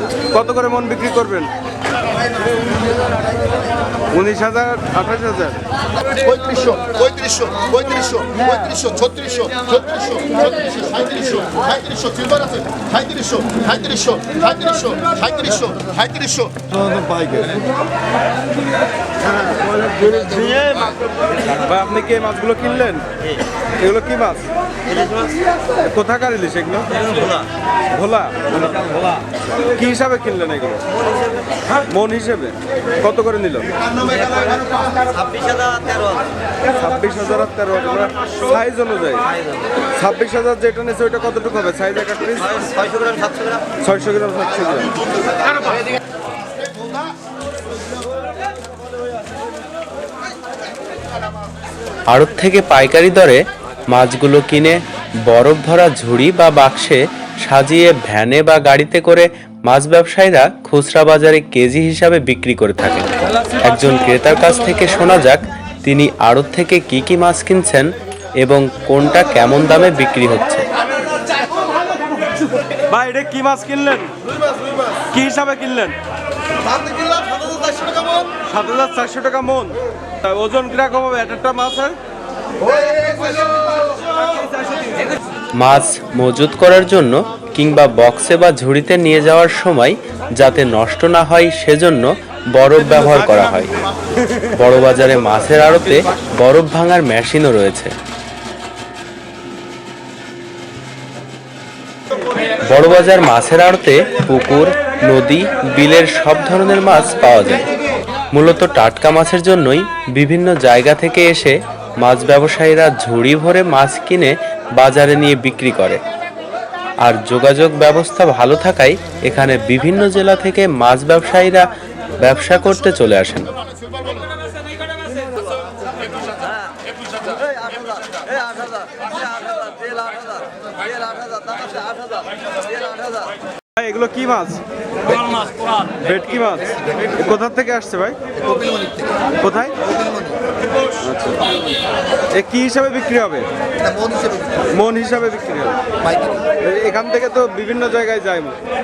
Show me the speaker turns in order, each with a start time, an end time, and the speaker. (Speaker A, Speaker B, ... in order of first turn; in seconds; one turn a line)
Speaker A: 0.3-1.5
Speaker A: 4.1-5.6
Speaker B: 6.3-16.6
Speaker A: 20.1-20.8
Speaker A: 21.5-23.2
Speaker A: 23.7-24.5
Speaker A: 25.8-29.1
Speaker A: 29.7-31.0
Speaker A: 31.9-33.8
Speaker A: 35.3-36.0
Speaker A: 36.7-45.1
Speaker C: 52.1-70.6
Speaker A: 72.7-76.0
Speaker A: 78.3-82.0
Speaker A: 82.8-83.3
Speaker C: 85.6-93.7
Speaker C: 94.3-97.9
Speaker C: 102.6-107.7
Speaker C: 108.3-116.0
Speaker C: 117.0-121.7
Speaker C: 122.2-123.5
Speaker A: 129.5-129.9
Speaker A: 133.7-138.2
Speaker B: 138.5-139.2
Speaker A: 139.3-139.9
Speaker A: 141.0-141.6
Speaker A: 142.3-143.5
Speaker B: 144.0-144.4
Speaker A: 144.6-148.6